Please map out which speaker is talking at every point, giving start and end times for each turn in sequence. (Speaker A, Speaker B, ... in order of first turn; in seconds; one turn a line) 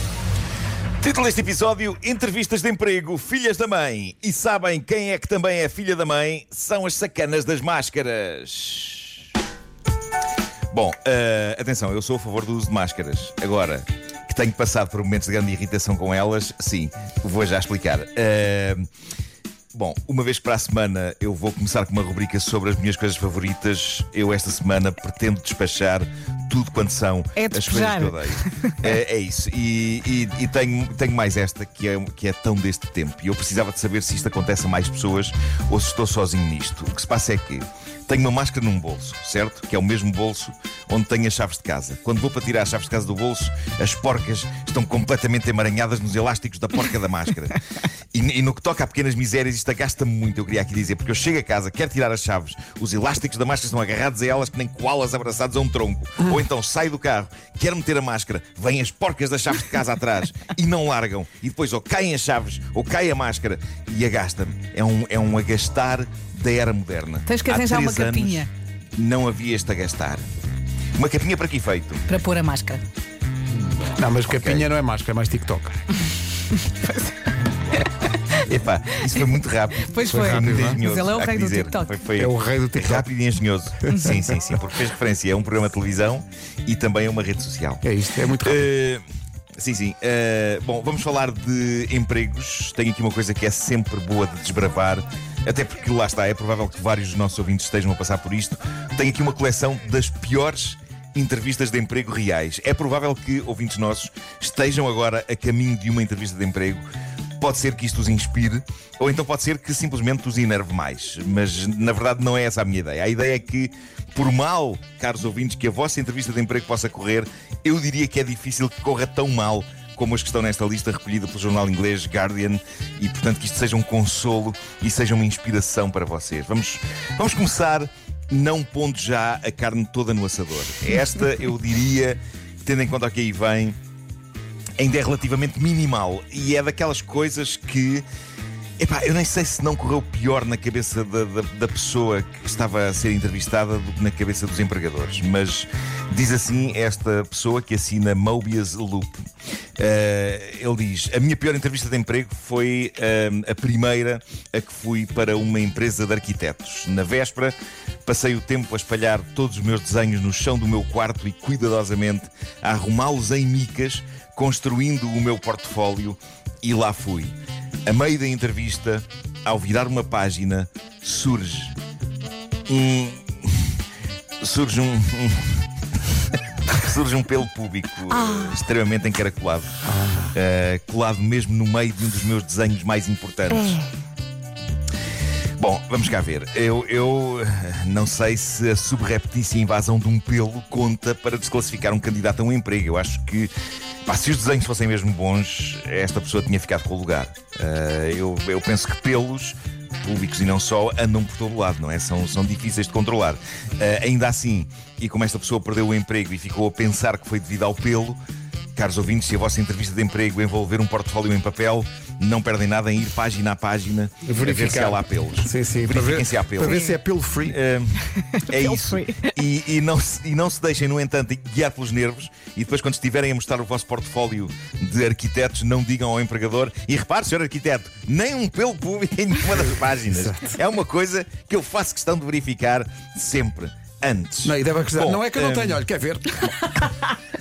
Speaker A: 1.0-9.2
Speaker A: 10.7-18.9
Speaker A: 19.7-47.6
Speaker B: 27.4-28.9
Speaker A: 48.1-70.2
Speaker B: 67.3-68.5
Speaker A: 71.0-72.0
Speaker B: 72.1-72.8
Speaker C: 74.0-75.8
Speaker A: 74.2-74.7
Speaker B: 76.5-77.2
Speaker A: 78.4-87.8
Speaker B: 79.0-79.3
Speaker B: 79.9-81.9
Speaker C: 80.1-80.8
Speaker C: 82.2-83.1
Speaker B: 83.9-84.2
Speaker C: 87.8-88.7
Speaker A: 88.4-89.0
Speaker A: 89.6-106.8
Speaker A: 107.4-133.8
Speaker A: 134.8-138.1
Speaker A: 138.8-149.2
Speaker A: 149.8-171.8
Speaker A: 172.7-173.8
Speaker A: 174.4-175.7
Speaker A: 176.7-179.8
Speaker C: 179.8-180.3
Speaker A: 180.3-183.8
Speaker A: 185.6-193.5
Speaker A: 194.1-208.2
Speaker A: 208.8-216.8
Speaker C: 214.2-217.6
Speaker B: 216.6-217.0
Speaker A: 217.4-235.8
Speaker B: 218.2-219.4
Speaker C: 230.1-230.6
Speaker C: 234.4-236.5
Speaker B: 236.6-237.2